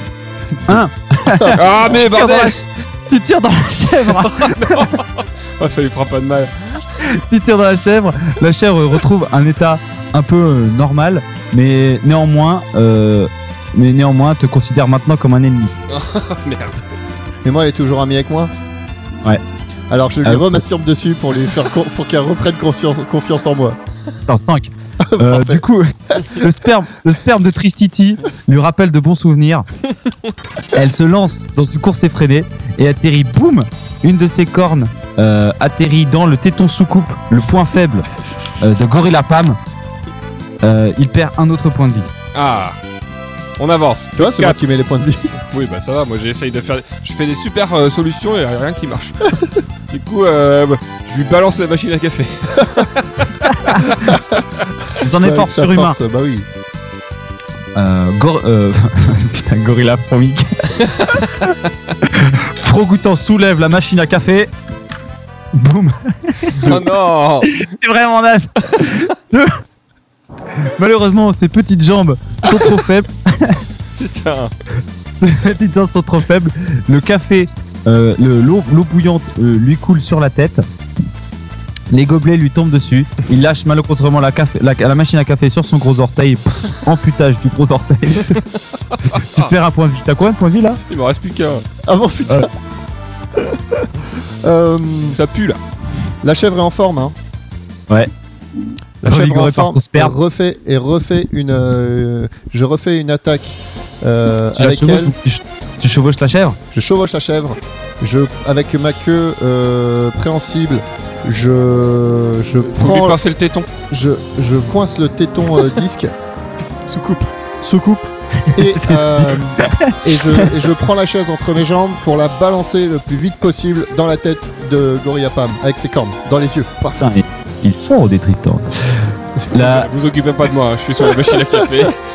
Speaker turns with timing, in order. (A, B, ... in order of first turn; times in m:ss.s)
0:00.6-0:02.0 A
0:00.7-0:04.9 B
0:01.6-0:02.6 C
0:04.2-0:06.8 C
0:07.0-0:15.7 B
0:15.9-0:16.8 C
0:17.4-0:18.5 A
0:19.9-0:23.8 A
0:20.2-0:20.6 B
0:24.3-0:29.7 B
0:25.0-0:25.6 A
0:30.7-0:38.1 B
0:38.6-0:39.6 B
0:40.6-0:42.1 B
0:42.3-0:42.8 C
0:43.6-0:44.6 C
0:44.2-0:45.4 A
0:45.5-0:49.3 C
0:49.9-0:54.2 C
0:53.4-0:53.9 B
0:55.0-0:56.0 B
0:55.2-0:56.5 A
0:57.8-1:01.5 B
1:02.0-1:04.5 B
1:05.5-1:06.7 B
1:06.6-1:07.5 C
1:07.4-1:09.6 B
1:10.6-1:13.6 B
1:14.0-1:14.5 C
1:15.2-1:20.6 B
1:21.9-1:28.4 B
1:29.1-1:30.8 B
1:29.1-1:29.5 C
1:30.9-1:31.6 C
1:31.8-1:32.5 A
1:33.4-1:35.2 A
1:35.1-1:35.6 C
1:36.2-1:37.2 A
1:39.0-1:45.2 A
1:39.0-1:40.2 B
1:44.6-1:46.6 B
1:46.7-1:53.2 A
1:52.8-1:53.7 C
1:53.9-1:56.1 A
1:56.9-1:57.3 C
1:57.6-2:07.0 A
1:58.4-2:00.5 B
2:07.0-2:09.9 B
2:09.5-2:12.0 C